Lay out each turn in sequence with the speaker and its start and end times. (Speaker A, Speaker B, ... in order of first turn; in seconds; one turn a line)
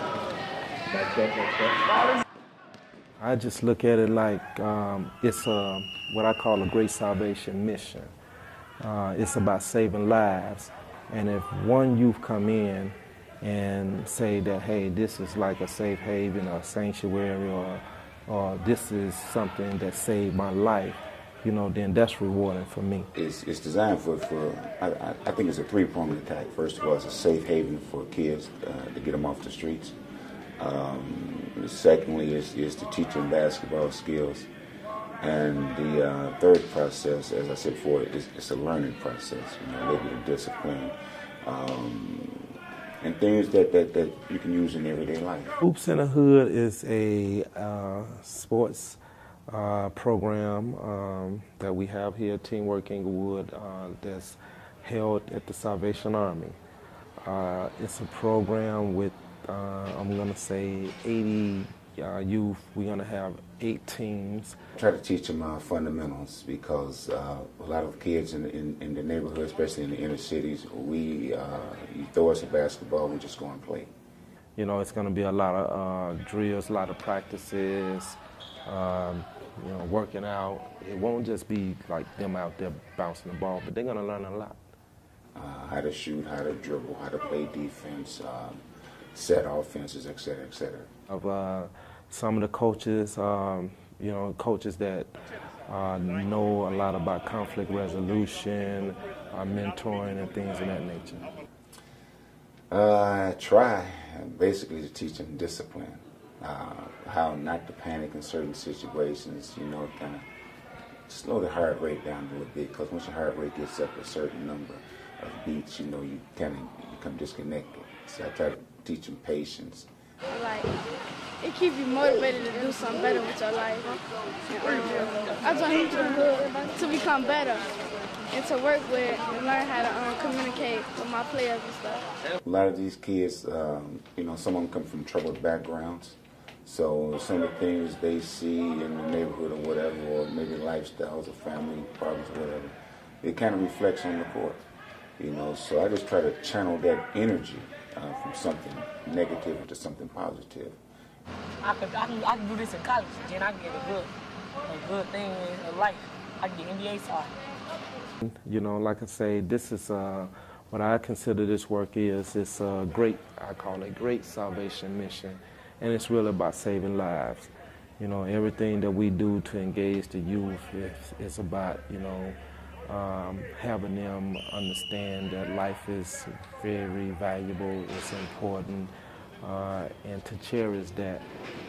Speaker A: 0.9-1.4
Speaker A: 3.2-8.1
Speaker A: 8.8-23.1
Speaker B: 23.1-29.9
Speaker B: 30.6-34.5
Speaker B: 35.2-45.6
Speaker A: 45.6-56.6
Speaker A: 57.2-64.6
Speaker B: 64.8-73.9
Speaker A: 74.5-84.6
Speaker B: 85.3-88.6
Speaker B: 89.1-90.9
Speaker A: 91.1-95.2
Speaker A: 95.7-101.3
Speaker B: 102.7-110.2
Speaker B: 111.1-119.9
Speaker C: 120.3-120.7
Speaker C: 121.4-127.7
Speaker C: 128.3-132.1
Speaker B: 132.4-144.6
Speaker B: 145.2-150.8
Speaker D: 151.6-154.1
Speaker D: 154.7-157.3
Speaker A: 158.2-181.2